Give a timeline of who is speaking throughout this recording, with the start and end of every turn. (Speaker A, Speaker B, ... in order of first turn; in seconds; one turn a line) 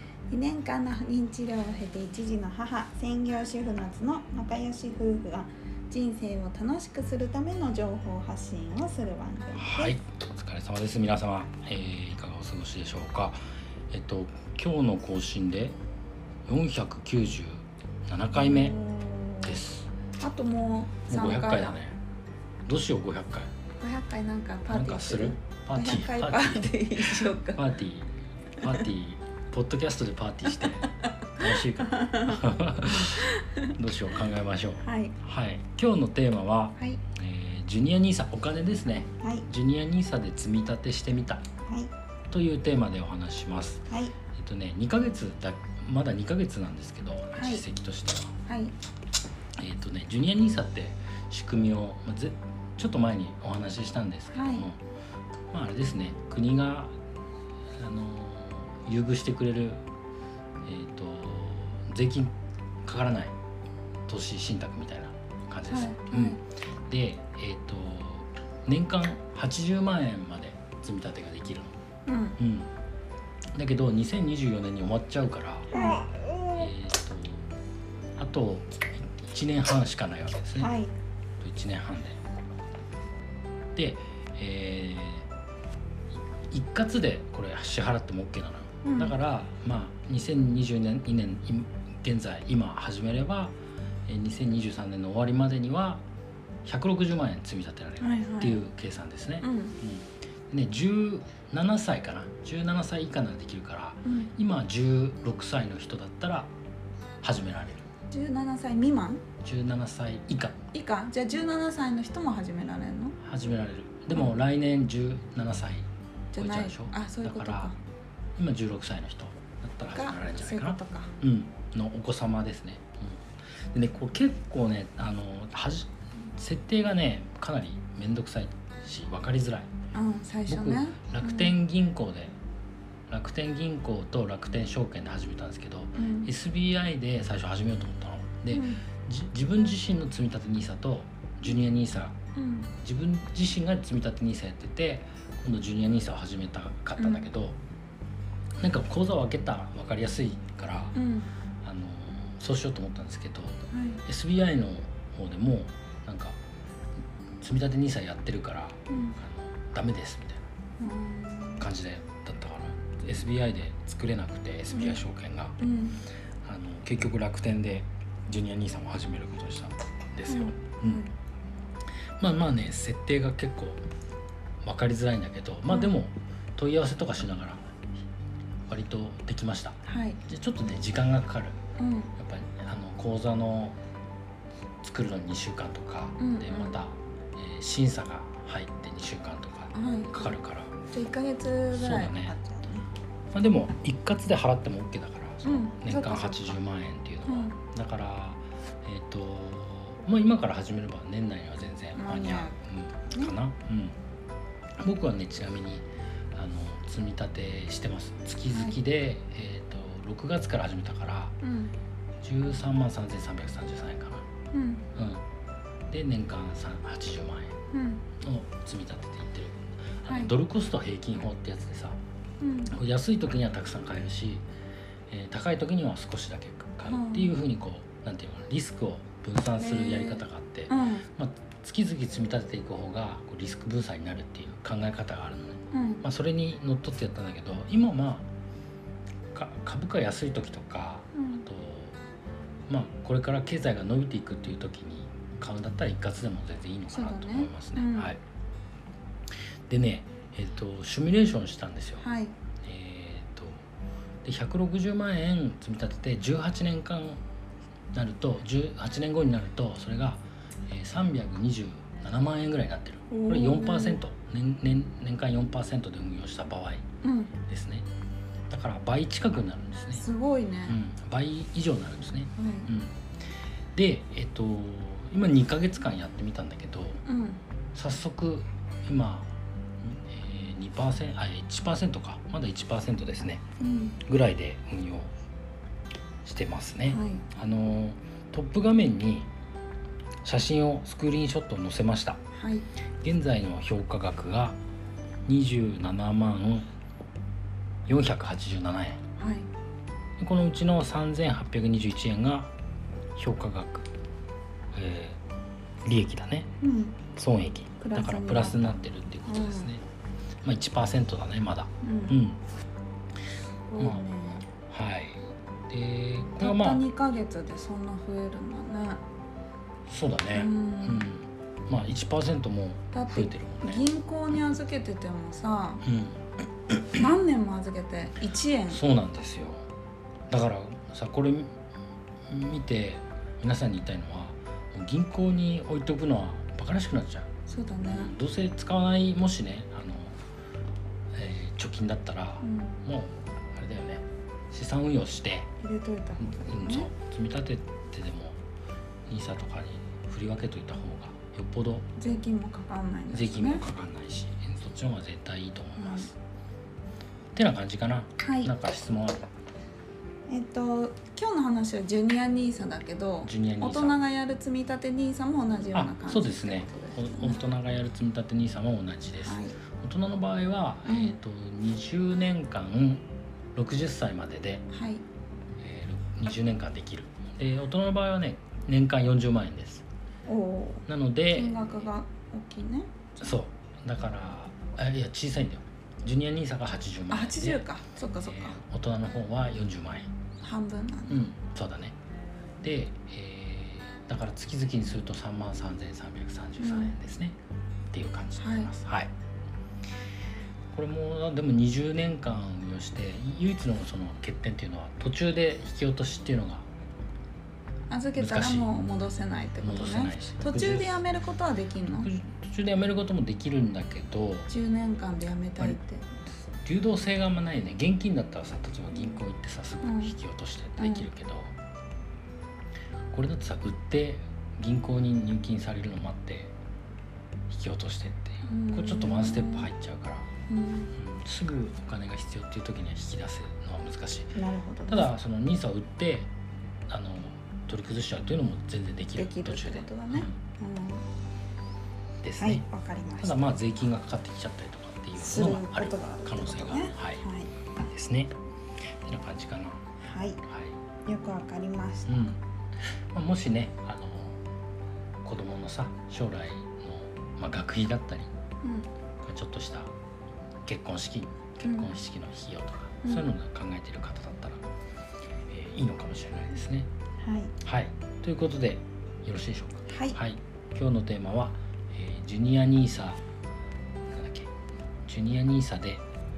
Speaker A: 0.3-9.9
Speaker B: 9.6-13.4
Speaker B: 13.9-15.8
Speaker B: 16.5-18.8
Speaker A: 18.4-19.6
Speaker B: 19.4-19.9
Speaker A: 20.2-21.8
Speaker B: 21.1-22.0
Speaker B: 22.7-23.5
Speaker A: 23.8-27.6
Speaker B: 24.7-41.4
Speaker A: 31.2-32.4
Speaker A: 32.9-33.7
Speaker A: 34.8-35.1
Speaker A: 39.2-39.5
Speaker A: 41.7-41.9
Speaker B: 42.3-48.3
Speaker A: 43.9-44.1
Speaker A: 47.3-47.6
Speaker A: 48.5-48.8
Speaker B: 49.6-54.8
Speaker A: 54.3-54.7
Speaker B: 55.5-56.9
Speaker B: 57.8-59.8
Speaker B: 60.6-62.3
Speaker B: 62.9-63.3
Speaker B: 64.1-71.8
Speaker A: 65.7-66.4
Speaker A: 72.1-72.4
Speaker B: 72.4-72.7
Speaker B: 73.5-75.7
Speaker A: 75.7-76.7
Speaker B: 76.6-77.5
Speaker B: 78.2-80.7
Speaker A: 80.5-80.9
Speaker B: 81.4-82.2
Speaker B: 83.8-85.3
Speaker B: 86.5-93.5
Speaker A: 88.8-89.2
Speaker B: 94.1-96.0
Speaker B: 96.7-106.5
Speaker A: 98.0-98.6
Speaker A: 99.4-99.8
Speaker A: 104.0-104.3
Speaker B: 107.2-107.9
Speaker A: 108.1-109.2
Speaker B: 109.4-110.6
Speaker A: 110.7-113.2
Speaker B: 113.2-117.7
Speaker A: 116.3-117.8
Speaker B: 118.4-129.7
Speaker A: 119.9-121.1
Speaker A: 129.9-131.6
Speaker B: 130.5-132.3
Speaker B: 133.1-142.2
Speaker A: 136.0-136.3
Speaker A: 138.5-138.8
Speaker A: 142.4-142.7
Speaker B: 142.8-147.6
Speaker A: 147.0-147.2
Speaker B: 148.6-150.9
Speaker A: 150.9-151.3
Speaker B: 151.6-156.4
Speaker A: 153.7-154.0
Speaker B: 157.4-160.4
Speaker A: 158.9-159.2
Speaker A: 160.8-161.6
Speaker B: 161.6-165.6
Speaker A: 164.7-165.0
Speaker A: 165.6-166.0
Speaker B: 166.4-171.0
Speaker A: 170.3-171.1
Speaker B: 172.2-173.8
Speaker B: 174.6-177.6
Speaker A: 175.7-175.9
Speaker B: 178.7-181.6
Speaker A: 179.8-180.2
Speaker A: 181.8-182.1
Speaker B: 182.2-183.8
Speaker B: 184.8-190.7
Speaker A: 186.2-186.8
Speaker A: 189.7-190.4
Speaker A: 190.9-192.9
Speaker B: 191.7-192.3
Speaker B: 193.3-204.0
Speaker A: 195.4-196.5
Speaker A: 197.3-197.6
Speaker A: 201.9-203.3
Speaker B: 204.8-211.4
Speaker A: 208.5-208.8
Speaker A: 211.4-211.7
Speaker B: 212.2-214.2
Speaker A: 214.5-214.8
Speaker B: 215.0-215.2
Speaker B: 215.9-217.5
Speaker A: 217.7-218.0
Speaker B: 218.2-222.0
Speaker A: 220.1-220.3
Speaker A: 222.4-222.7
Speaker B: 222.7-224.4
Speaker B: 225.1-238.3
Speaker A: 226.9-227.3
Speaker A: 229.6-231.1
Speaker A: 235.7-236.0
Speaker B: 239.3-242.0
Speaker A: 241.1-241.4
Speaker B: 242.7-248.2
Speaker A: 246.9-248.2
Speaker B: 249.7-252.0
Speaker A: 252.0-252.3
Speaker B: 252.6-253.6
Speaker B: 254.2-257.2
Speaker B: 257.9-266.8
Speaker A: 263.1-264.0
Speaker A: 267.0-267.3
Speaker B: 267.5-267.9
Speaker B: 268.5-270.1
Speaker A: 269.9-270.8
Speaker B: 270.7-272.9
Speaker A: 272.4-272.7
Speaker B: 273.7-277.0
Speaker A: 277.1-277.4
Speaker B: 277.7-279.3
Speaker B: 279.8-283.4
Speaker A: 283.6-284.0
Speaker B: 284.0-285.1
Speaker B: 286.2-289.3
Speaker A: 286.9-287.2
Speaker B: 290.2-292.2
Speaker A: 292.3-292.7
Speaker B: 293.0-294.6
Speaker B: 295.3-296.7
Speaker B: 297.9-299.0
Speaker A: 299.2-299.5
Speaker B: 300.2-302.5
Speaker B: 303.2-303.9
Speaker B: 304.7-305.2
Speaker B: 305.8-306.5
Speaker A: 306.6-307.0
Speaker B: 307.1-309.9
Speaker A: 307.8-309.7
Speaker B: 310.4-312.4
Speaker A: 311.8-312.2
Speaker A: 313.7-314.5
Speaker B: 313.8-316.8
Speaker A: 316.4-319.0
Speaker B: 319.9-323.9
Speaker A: 320.3-321.1
Speaker A: 322.9-325.8
Speaker B: 325.9-327.0
Speaker A: 327.0-328.8
Speaker B: 328.7-329.7
Speaker B: 330.3-331.5
Speaker B: 332.3-337.3
Speaker A: 337.5-338.1
Speaker B: 337.8-340.2
Speaker B: 341.1-345.5
Speaker A: 342.4-342.8
Speaker A: 345.6-346.9
Speaker B: 346.2-348.4
Speaker B: 349.1-351.9
Speaker A: 352.0-353.6
Speaker B: 353.1-356.1
Speaker A: 355.8-356.1
Speaker B: 357.4-359.3
Speaker A: 358.2-358.5
Speaker A: 360.3-367.4
Speaker B: 363.2-364.0
Speaker B: 365.7-373.0
Speaker A: 369.2-369.6
Speaker A: 370.9-371.2
Speaker B: 373.5-374.6
Speaker A: 374.7-375.0
Speaker B: 375.6-379.8
Speaker A: 380.3-383.4
Speaker B: 380.9-381.8
Speaker B: 383.2-387.6
Speaker A: 387.1-388.6
Speaker B: 388.2-390.1
Speaker A: 390.4-391.3
Speaker B: 391.1-391.9
Speaker B: 392.6-397.4
Speaker A: 396.6-396.9
Speaker B: 397.9-399.1
Speaker A: 398.4-398.7
Speaker B: 400.7-406.7
Speaker A: 407.9-412.1
Speaker B: 408.2-408.7
Speaker B: 409.6-411.0
Speaker B: 411.9-414.5
Speaker A: 414.5-416.1
Speaker B: 416.6-421.5
Speaker A: 419.8-420.1
Speaker A: 420.8-421.1
Speaker B: 423.1-426.5
Speaker B: 427.5-430.3
Speaker A: 428.5-429.7
Speaker A: 430.5-430.9
Speaker B: 430.9-434.4
Speaker A: 434.4-435.1
Speaker B: 434.9-436.3
Speaker B: 436.9-440.3
Speaker A: 439.2-441.0
Speaker B: 442.2-442.6
Speaker A: 442.4-443.4
Speaker B: 443.2-447.2
Speaker A: 445.2-447.5
Speaker B: 447.8-448.3
Speaker B: 449.0-449.8
Speaker A: 450.0-450.4
Speaker B: 450.4-450.8
Speaker A: 451.1-452.3
Speaker B: 452.1-452.4
Speaker B: 453.1-454.4
Speaker B: 455.2-458.3
Speaker A: 458.6-458.9
Speaker B: 459.2-459.9
Speaker B: 460.6-464.6
Speaker A: 461.6-462.0
Speaker B: 465.5-466.9
Speaker A: 467.2-467.5
Speaker B: 467.6-473.2
Speaker A: 469.9-470.2
Speaker B: 474.1-474.5
Speaker B: 475.1-476.0